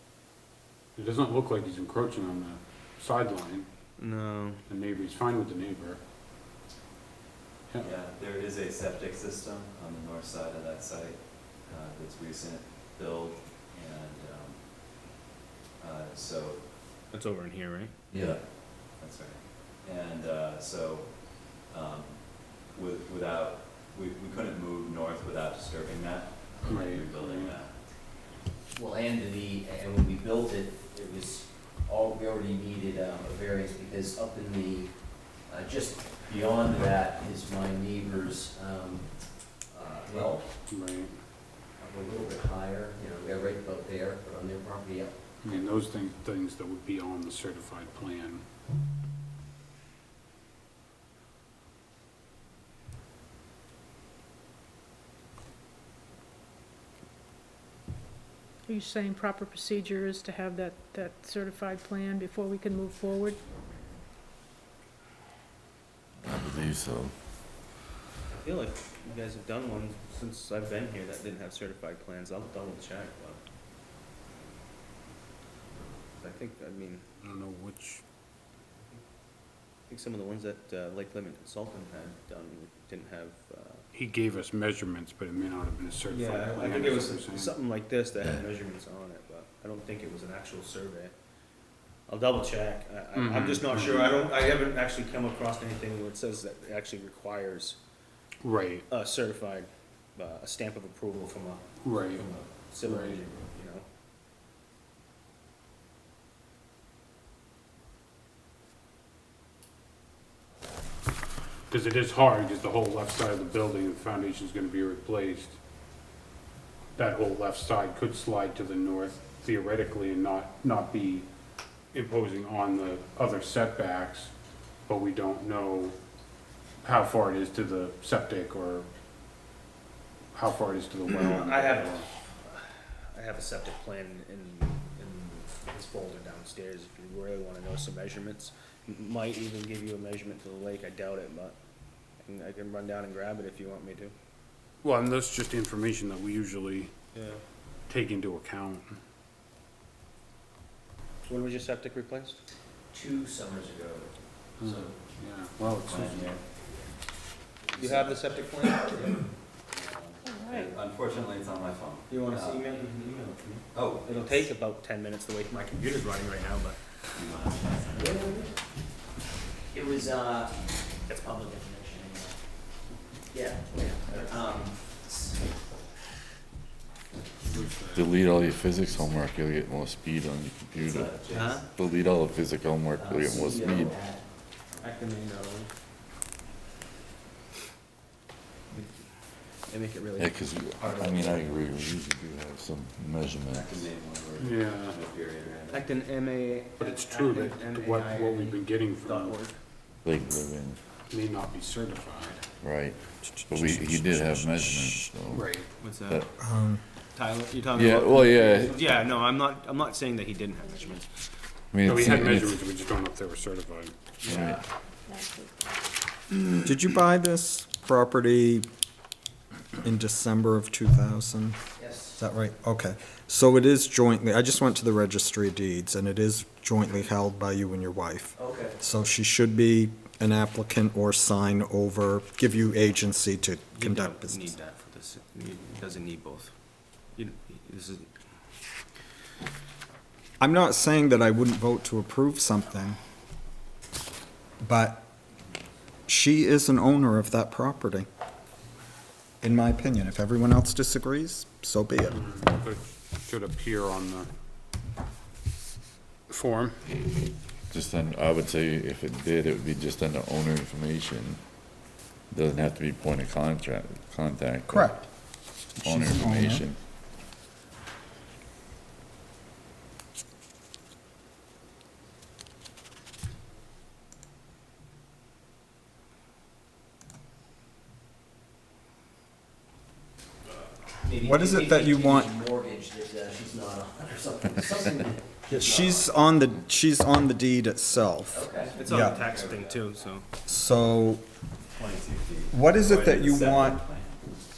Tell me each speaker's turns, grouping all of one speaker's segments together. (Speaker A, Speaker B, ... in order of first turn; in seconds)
Speaker A: 1.0-3.7, 4.7-6.0, 26.6-27.6, 40.7-41.1, 45.4-48.5, 77.2-78.0, 83.9-87.5, 93.2-94.2, 98.4-98.9, 101.8-102.2, 102.8-103.2, 111.7-115.6, 117.0-121.3, 121.9-124.3, 124.9-126.0, 126.8-128.9, 130.3-132.1, 144.8-146.9, 147.9-149.0, 154.6-156.4, 177.4-178.1, 194.4-195.0, 196.8-199.4, 201.1-202.4, 205.3-205.7, 211.8-213.9, 252.1-254.3, 256.3-256.8
Speaker B: 4.0-4.6, 17.1-17.9, 68.3-73.4, 76.2-77.0, 79.9-83.8, 86.1-91.2, 92.1-97.8, 98.9-103.8, 131.2-141.6, 142.2-144.1, 147.1-147.4, 151.3-152.4, 157.8-159.2, 162.1-166.8, 168.0-168.4, 181.3-181.7, 184.8-185.7, 189.7-190.3, 195.7-199.6, 205.8-206.2, 207.2-211.1, 233.8-236.5, 237.2-238.1, 288.8-290.2
Speaker C: 7.8-14.6, 15.8-16.6, 18.1-27.8, 155.8-156.4, 159.7-162.6, 163.7-164.5, 167.1-168.2, 181.2-181.6, 193.5-195.9, 289.2-289.7, 291.8-294.2
Speaker D: 28.7-40.5, 41.8-45.6, 152.9-155.0, 157.7-159.2, 168.0-168.5, 169.7-172.4, 173.3-175.4, 180.8-181.6, 182.9-184.3, 190.8-191.4, 214.3-214.6, 221.8-222.2, 228.4-228.8, 281.0-285.8, 288.3-289.8
Speaker E: 58.7-63.4
Speaker F: 66.2-67.1, 177.9-184.0, 190.2-193.9, 200.1-200.8, 202.6-203.0, 203.5-205.5, 207.7-208.9, 211.7-212.6, 214.2-214.6, 257.7-261.4, 262.3-265.0, 265.8-266.8
Speaker G: 206.4-206.8, 216.6-218.7, 219.8-221.6, 222.2-234.5, 240.4-243.0, 244.6-245.1, 246.1-248.1, 249.4-252.3, 264.7-265.2, 265.8-266.7, 281.2-282.3, 285.5-289.2, 290.5-291.2, 292.5-293.8